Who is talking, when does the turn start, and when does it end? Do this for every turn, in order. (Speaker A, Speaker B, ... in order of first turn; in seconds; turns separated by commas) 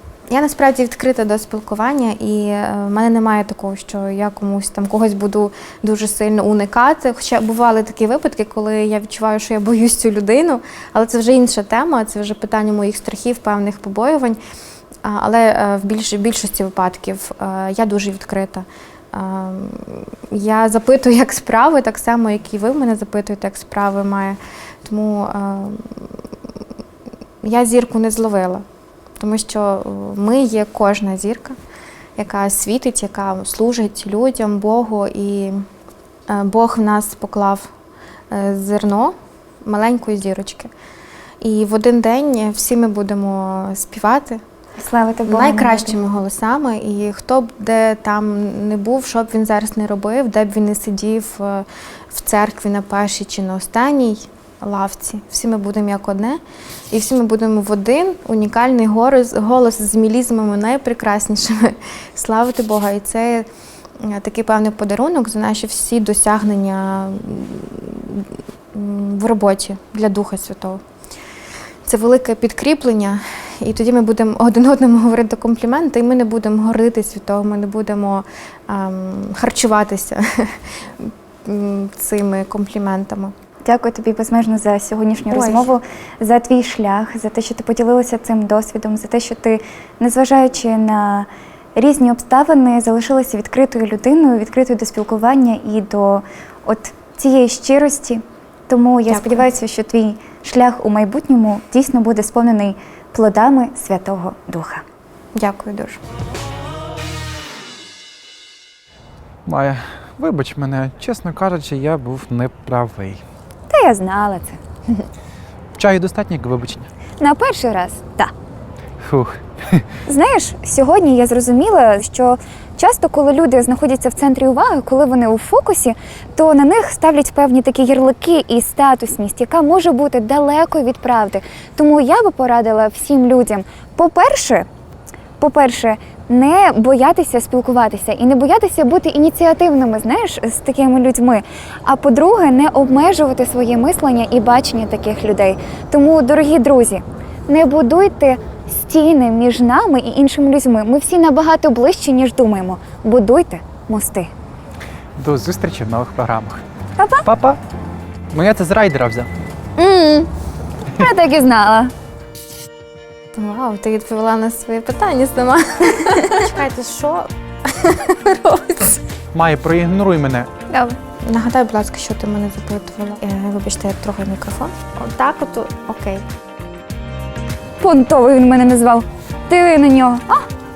Speaker A: 0.3-14.4, Speaker A: 15.0-26.1, Speaker A: 27.4-28.6, Speaker A: 29.2-31.6, Speaker A: 32.2-35.6, Speaker A: 36.3-37.7, Speaker A: 38.3-40.7, Speaker A: 41.4-44.4, Speaker B: 44.8-46.0, Speaker A: 45.2-56.4, Speaker A: 56.9-63.5, Speaker A: 64.0-70.8, Speaker A: 71.8-83.3, Speaker B: 83.6-104.8, Speaker A: 85.3-85.7, Speaker A: 99.1-99.4, Speaker A: 105.3-106.0, Speaker C: 109.5-113.2, Speaker B: 113.7-115.0, Speaker C: 115.8-116.9, Speaker B: 117.2-118.3, Speaker C: 119.0-119.8, Speaker B: 120.1-134.7, Speaker B: 135.4-154.3, Speaker C: 155.2-156.6, Speaker B: 157.0-157.2, Speaker C: 157.2-157.6, Speaker C: 158.3-159.3, Speaker B: 159.8-160.3, Speaker B: 160.9-161.9, Speaker A: 163.3-169.0, Speaker C: 169.3-170.5, Speaker B: 170.7-171.0, Speaker A: 171.2-176.2, Speaker B: 177.8-180.5